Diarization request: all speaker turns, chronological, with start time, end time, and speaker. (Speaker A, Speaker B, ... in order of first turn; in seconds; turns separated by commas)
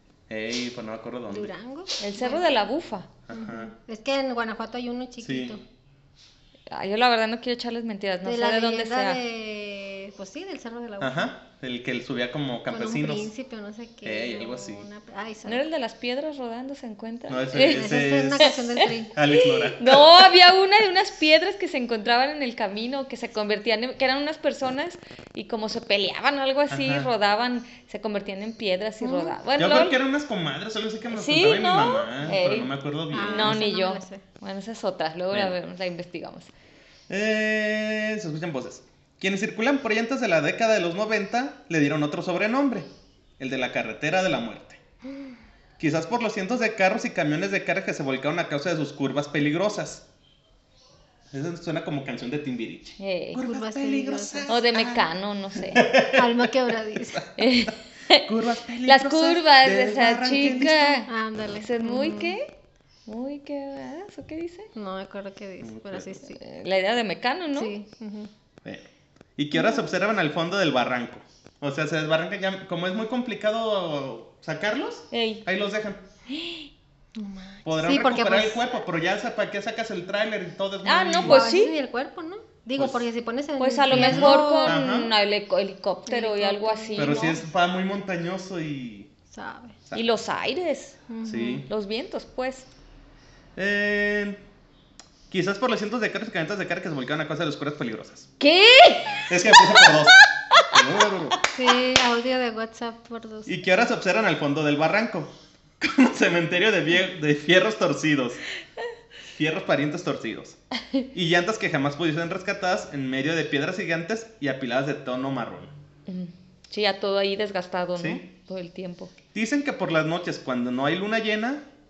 Speaker A: 0.3-1.5, Speaker B: 1.3-2.6, Speaker C: 2.0-3.1, Speaker A: 3.3-3.7, Speaker B: 3.3-5.6, Speaker A: 5.2-5.6, Speaker C: 6.7-9.2, Speaker B: 8.2-11.3, Speaker A: 11.0-13.3, Speaker B: 12.7-15.6, Speaker A: 14.0-14.8, Speaker C: 15.5-30.0, Speaker A: 17.3-20.3, Speaker B: 17.6-19.1, Speaker A: 26.7-27.1, Speaker B: 29.0-29.4, Speaker A: 29.6-33.6, Speaker C: 31.1-36.5, Speaker B: 33.1-34.2, Speaker A: 37.1-44.8, Speaker A: 45.8-50.0, Speaker A: 51.3-55.0, Speaker C: 53.0-53.4, Speaker B: 53.4-54.7, Speaker C: 54.5-55.9, Speaker A: 55.7-57.3, Speaker B: 55.9-57.3, Speaker C: 57.4-58.3, Speaker A: 58.2-61.0, Speaker C: 58.8-61.1, Speaker B: 61.1-62.4, Speaker C: 61.6-62.5, Speaker C: 63.1-64.7, Speaker B: 64.8-66.4, Speaker A: 65.6-66.2, Speaker C: 66.3-67.7, Speaker B: 67.5-68.3, Speaker A: 68.6-76.0, Speaker B: 69.6-69.9, Speaker C: 75.1-75.4, Speaker C: 76.3-76.7, Speaker B: 77.2-78.7, Speaker A: 77.7-81.5, Speaker C: 80.8-81.7, Speaker B: 81.2-84.8, Speaker A: 82.8-83.0, Speaker C: 83.6-87.4, Speaker A: 83.9-85.1, Speaker B: 86.1-87.4, Speaker A: 87.0-89.1, Speaker B: 89.3-89.8, Speaker C: 90.0-91.0, Speaker B: 91.1-91.7, Speaker A: 91.2-91.7, Speaker C: 91.7-92.7, Speaker A: 93.6-94.4, Speaker A: 95.3-98.3, Speaker C: 98.4-100.7, Speaker A: 99.3-101.4, Speaker B: 101.5-103.5, Speaker A: 103.5-108.4, Speaker A: 109.3-110.6, Speaker A: 111.1-115.7, Speaker C: 116.1-119.1, Speaker A: 118.0-118.2, Speaker A: 119.3-121.7